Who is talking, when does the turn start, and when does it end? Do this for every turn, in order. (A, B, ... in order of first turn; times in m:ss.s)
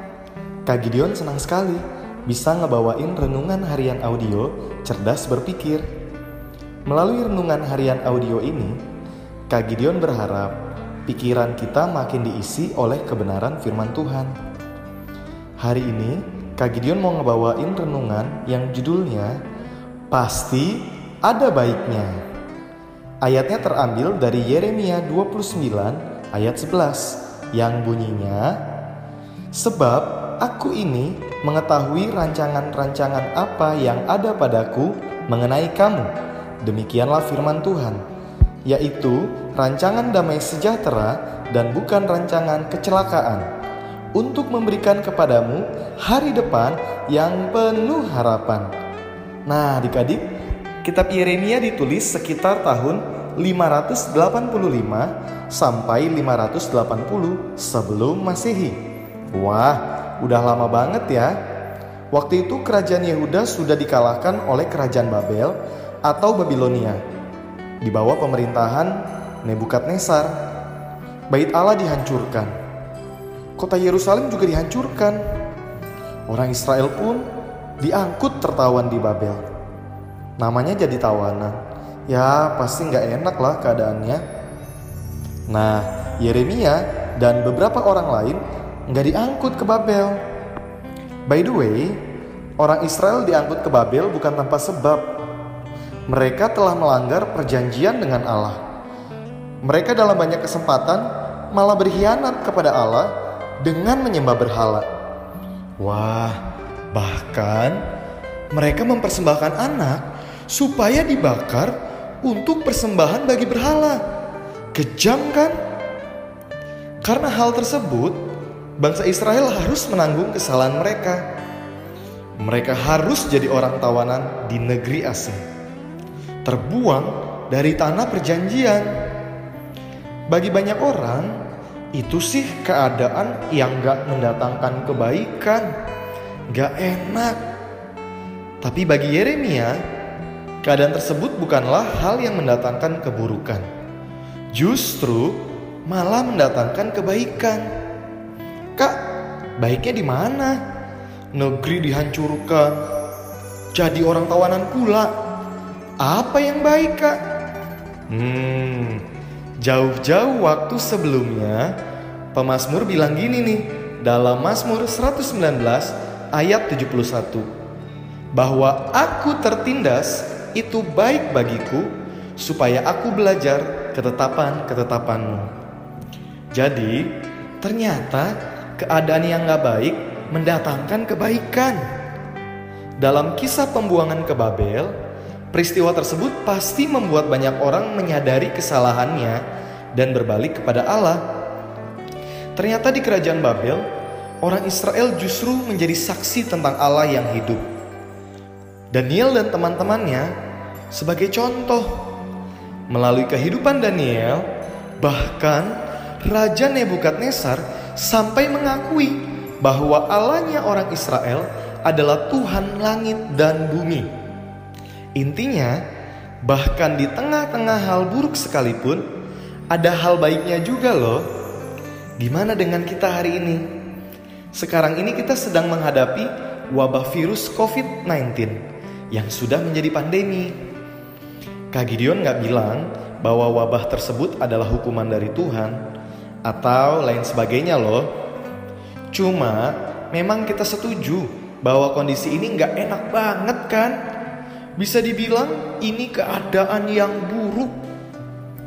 0:00.6-0:05.8 A
0:06.8-0:08.8 A
0:09.5-0:14.3 A
0:15.6-0:19.4 A
0:20.1-0:22.2 A
0:23.2-0:28.6 A
0:29.5-0:36.1 A
0:36.6-0:38.0 A
0:38.6-0:43.5 A
0:44.1-0:48.7 A
0:49.5-0:50.2 A
0:50.8-0:58.8 A
0:59.3-1:01.4 A
1:02.1-1:07.0 A
1:07.8-1:10.4 A
1:11.3-1:12.5 A
1:13.6-1:15.2 A
1:16.3-1:17.3 A
1:17.8-1:19.4 A
1:20.4-1:24.2 A
1:25.5-1:30.2 A
1:31.3-1:32.0 A
1:32.6-1:35.1 A
1:36.1-1:38.6 A
1:39.6-1:44.9 A
1:45.8-1:46.4 A
1:46.9-1:47.8 A
1:48.5-1:54.0 A
1:54.7-1:55.6 A
1:57.0-1:58.2 A
1:58.8-2:01.2 A
2:02.4-2:05.4 A
2:06.4-2:08.9 A
2:10.3-2:11.4 A
2:11.9-2:15.7 A
2:16.5-2:17.4 A
2:18.6-2:19.8 A
2:20.6-2:23.7 A
2:24.5-2:27.7 A
2:29.6-2:30.6 A
2:31.3-2:32.8 A
2:33.7-2:35.1 A
2:36.0-2:37.2 A
2:38.1-2:39.0 A
2:39.6-2:41.8 A
2:42.3-2:47.5 A
2:48.4-2:55.5 A
2:56.5-3:01.8 A
3:03.0-3:04.9 A
3:05.5-3:09.4 A
3:09.9-3:11.2 A
3:12.6-3:13.8 A
3:14.4-3:17.6 A
3:18.9-3:20.3 A
3:20.9-3:22.0 A
3:22.9-3:24.5 A
3:25.0-3:34.1 A
3:35.2-3:35.8 A
3:36.4-3:39.0 A
3:39.7-3:41.3 A
3:42.2-3:43.7 A
3:44.5-3:48.6 A
3:49.1-3:50.6 A
3:51.7-3:55.8 A
3:56.4-3:58.1 A
3:59.1-4:04.0 A
4:04.8-4:07.8 A